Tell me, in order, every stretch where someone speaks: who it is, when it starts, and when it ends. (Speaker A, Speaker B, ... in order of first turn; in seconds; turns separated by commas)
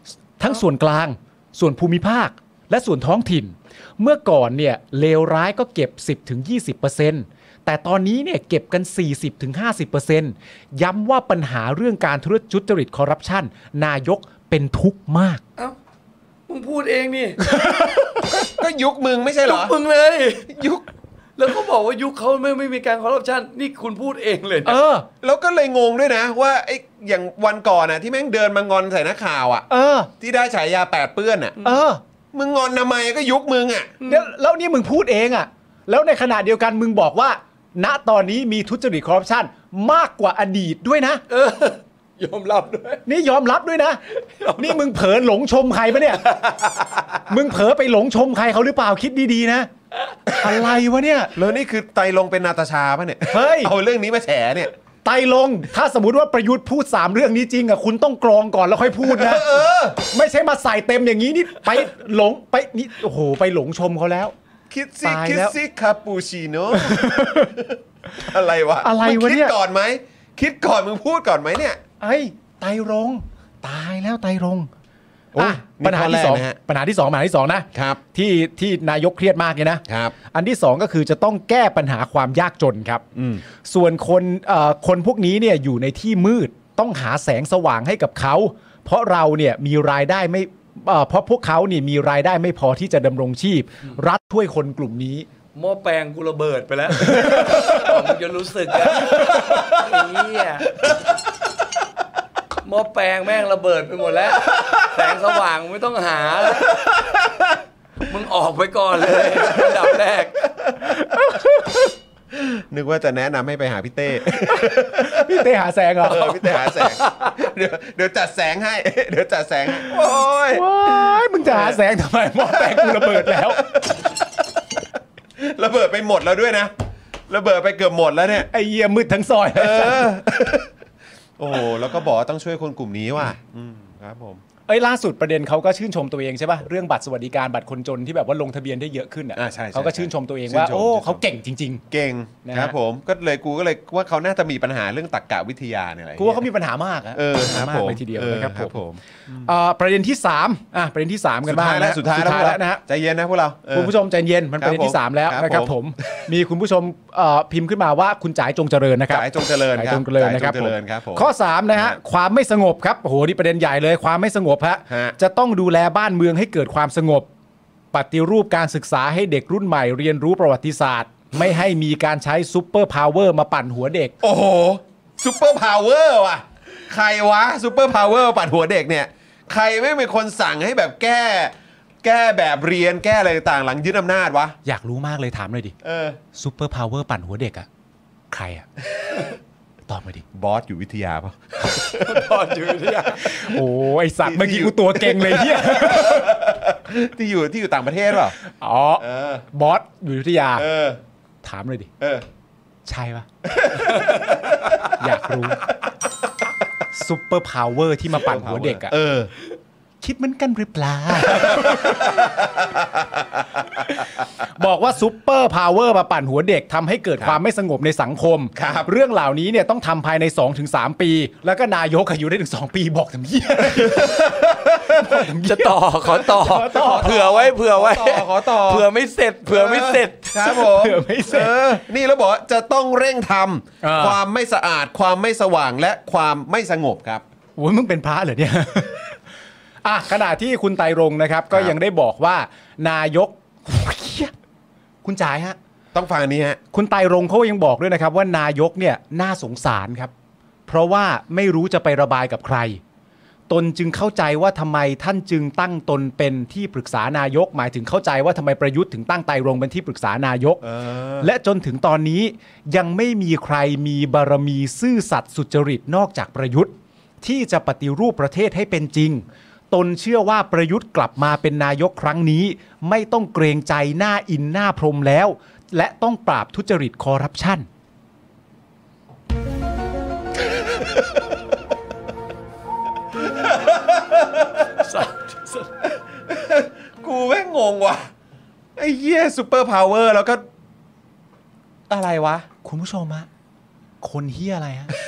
Speaker A: 0.4-15.4, Speaker B: 16.5-17.4, Speaker A: 17.4-18.5, Speaker C: 18.3-19.8, Speaker B: 19.4-20.6, Speaker C: 20.5-20.9, Speaker B: 21.4-24.8, Speaker A: 24.6-25.1, Speaker C: 25.2-31.6, Speaker A: 29.7-30.1, Speaker A: 31.6-32.0, Speaker C: 32.3-33.9, Speaker B: 34.0-34.3, Speaker A: 34.0-41.2, Speaker B: 41.3-43.0, Speaker A: 43.1-44.0, Speaker B: 44.2-44.8, Speaker A: 44.6-46.3, Speaker B: 46.1-47.2, Speaker A: 47.3-49.7, Speaker A: 50.4-51.3, Speaker C: 51.3-54.7, Speaker A: 53.3-53.7, Speaker A: 55.0-64.3, Speaker C: 59.0-60.0, Speaker C: 64.7-71.8, Speaker A: 65.0-65.6, Speaker A: 66.7-67.5, Speaker A: 68.8-69.5, Speaker A: 72.0-74.7, Speaker C: 75.3-76.6, Speaker A: 75.4-83.0, Speaker C: 77.7-78.0, Speaker C: 79.9-80.2, Speaker C: 83.2-83.4, Speaker A: 83.7-95.3, Speaker B: 95.5-100.8, Speaker A: 97.0-97.9, Speaker B: 102.6-106.8, Speaker C: 107.0-107.4, Speaker B: 108.0-110.4, Speaker C: 110.6-111.0, Speaker A: 110.8-111.9, Speaker C: 112.3-115.4, Speaker A: 114.5-116.9, Speaker C: 116.0-121.8, Speaker A: 119.8-123.6, Speaker C: 122.4-124.2, Speaker C: 125.4-126.7, Speaker C: 127.3-128.5, Speaker A: 128.5-130.2, Speaker C: 129.6-130.7, Speaker C: 131.4-134.4, Speaker A: 134.7-141.8, Speaker C: 139.3-141.2, Speaker C: 141.9-146.5, Speaker A: 142.4-142.8, Speaker A: 146.2-148.8, Speaker C: 147.1-149.4, Speaker A: 149.4-152.8, Speaker C: 151.4-153.9, Speaker A: 153.7-167.3, Speaker C: 154.6-155.8, Speaker C: 159.1-162.0, Speaker C: 164.9-165.2, Speaker A: 167.9-174.1, Speaker C: 174.2-184.6, Speaker A: 184.7-185.8, Speaker C: 185.8-186.2, Speaker A: 186.3-187.7, Speaker A: 188.3-188.7, Speaker A: 189.9-190.2, Speaker C: 190.3-192.3, Speaker B: 192.0-193.5, Speaker A: 193.2-196.3, Speaker C: 194.2-198.4, Speaker A: 198.4-200.7, Speaker C: 199.0-199.4, Speaker C: 200.6-201.0, Speaker A: 201.4-201.9, Speaker C: 202.0-202.3, Speaker A: 202.9-203.3, Speaker C: 203.6-204.7, Speaker A: 205.0-205.7, Speaker A: 206.9-208.9, Speaker C: 208.1-209.3, Speaker A: 210.0-212.2, Speaker C: 211.3-213.8, Speaker A: 214.0-227.3, Speaker C: 218.6-218.9, Speaker C: 223.7-225.0, Speaker B: 225.1-230.6, Speaker C: 226.5-228.9, Speaker C: 229.5-237.2, Speaker A: 230.4-231.8, Speaker A: 233.8-234.2, Speaker A: 237.6-239.2, Speaker A: 239.8-244.3, Speaker A: 245.0-245.6, Speaker C: 245.9-246.6, Speaker A: 246.7-250.1, Speaker A: 250.7-252.8, Speaker A: 253.5-260.6, Speaker C: 260.6-261.3, Speaker A: 261.2-277.7, Speaker C: 283.3-284.6, Speaker B: 284.7-285.7, Speaker C: 286.3-288.1, Speaker C: 288.8-290.4, Speaker C: 291.9-292.5, Speaker A: 292.6-293.3, Speaker A: 294.0-294.9